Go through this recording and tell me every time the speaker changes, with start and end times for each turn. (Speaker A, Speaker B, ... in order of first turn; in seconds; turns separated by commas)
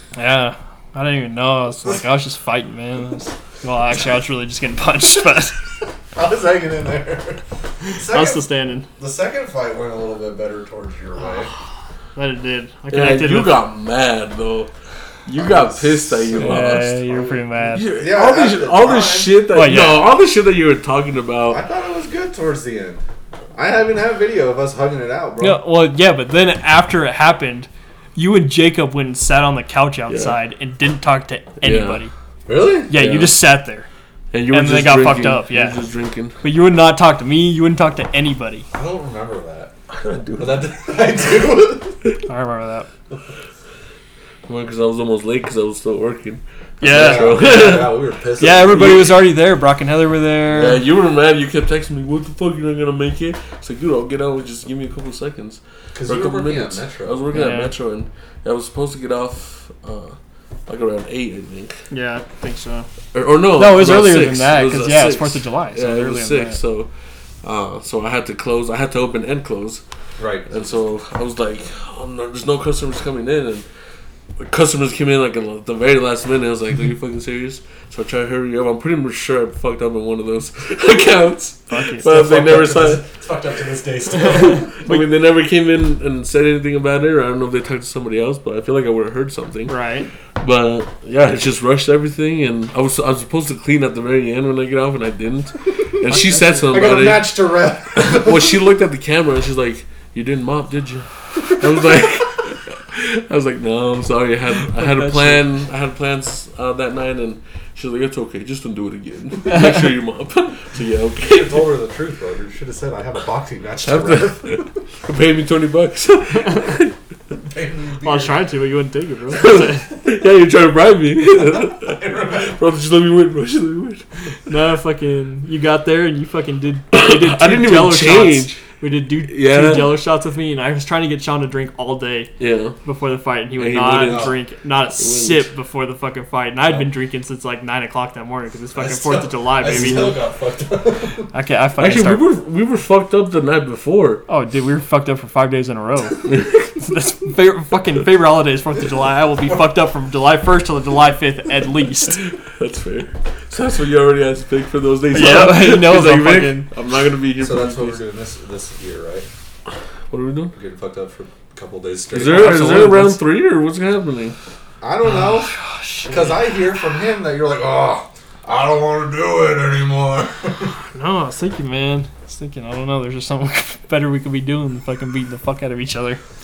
Speaker A: 0.1-5.6, Speaker B: 6.1-11.5, Speaker A: 8.1-8.9, Speaker A: 12.2-13.6, Speaker C: 12.9-14.7, Speaker C: 15.3-17.0, Speaker B: 15.4-17.4, Speaker A: 16.4-17.9, Speaker C: 17.7-21.6, Speaker B: 17.9-19.5, Speaker A: 19.5-20.1, Speaker B: 21.5-23.0, Speaker B: 23.6-25.6, Speaker A: 25.4-32.1, Speaker C: 30.1-30.4, Speaker C: 31.6-32.0, Speaker B: 32.5-32.9, Speaker A: 32.9-33.9, Speaker C: 32.9-33.4, Speaker C: 34.3-36.4, Speaker A: 34.5-35.8, Speaker A: 36.4-38.7, Speaker B: 38.7-39.7, Speaker C: 39.9-40.6, Speaker B: 40.4-42.0, Speaker A: 42.3-42.9, Speaker C: 44.5-48.0, Speaker A: 46.8-47.9, Speaker B: 46.8-49.1, Speaker A: 48.4-50.8, Speaker C: 48.7-49.2, Speaker C: 50.5-60.2, Speaker B: 56.0-57.2, Speaker A: 57.3-57.7, Speaker C: 60.7-61.8, Speaker A: 61.9-62.9, Speaker C: 63.1-66.9, Speaker A: 63.6-66.6, Speaker C: 67.4-69.8, Speaker B: 70.2-70.8, Speaker C: 70.5-73.7, Speaker C: 74.4-83.0, Speaker A: 81.7-82.2, Speaker B: 82.0-84.8, Speaker C: 84.3-89.8, Speaker A: 84.3-85.0, Speaker A: 89.7-90.1, Speaker C: 90.4-97.3, Speaker B: 96.0-98.6, Speaker A: 96.1-96.8, Speaker C: 98.0-111.7, Speaker B: 101.6-102.1, Speaker A: 104.7-105.4, Speaker B: 111.2-114.7, Speaker C: 113.8-116.9, Speaker B: 117.4-118.5, Speaker A: 118.0-119.9, Speaker C: 119.3-124.0, Speaker B: 121.3-122.6, Speaker A: 124.5-132.3, Speaker C: 126.9-128.6, Speaker C: 129.3-130.0, Speaker C: 132.4-132.8, Speaker A: 132.8-140.2, Speaker C: 133.6-134.4, Speaker B: 134.0-134.3, Speaker C: 135.0-135.5, Speaker B: 138.8-141.3, Speaker A: 141.3-142.3, Speaker C: 141.8-144.2, Speaker A: 144.3-146.3, Speaker C: 146.2-146.8, Speaker A: 146.8-152.2, Speaker C: 152.2-158.0, Speaker A: 155.1-156.7, Speaker B: 157.4-159.3, Speaker C: 160.1-160.5, Speaker B: 160.5-162.9, Speaker C: 162.1-164.4, Speaker A: 162.2-163.2, Speaker B: 164.8-170.7, Speaker A: 165.0-166.4, Speaker A: 170.9-176.2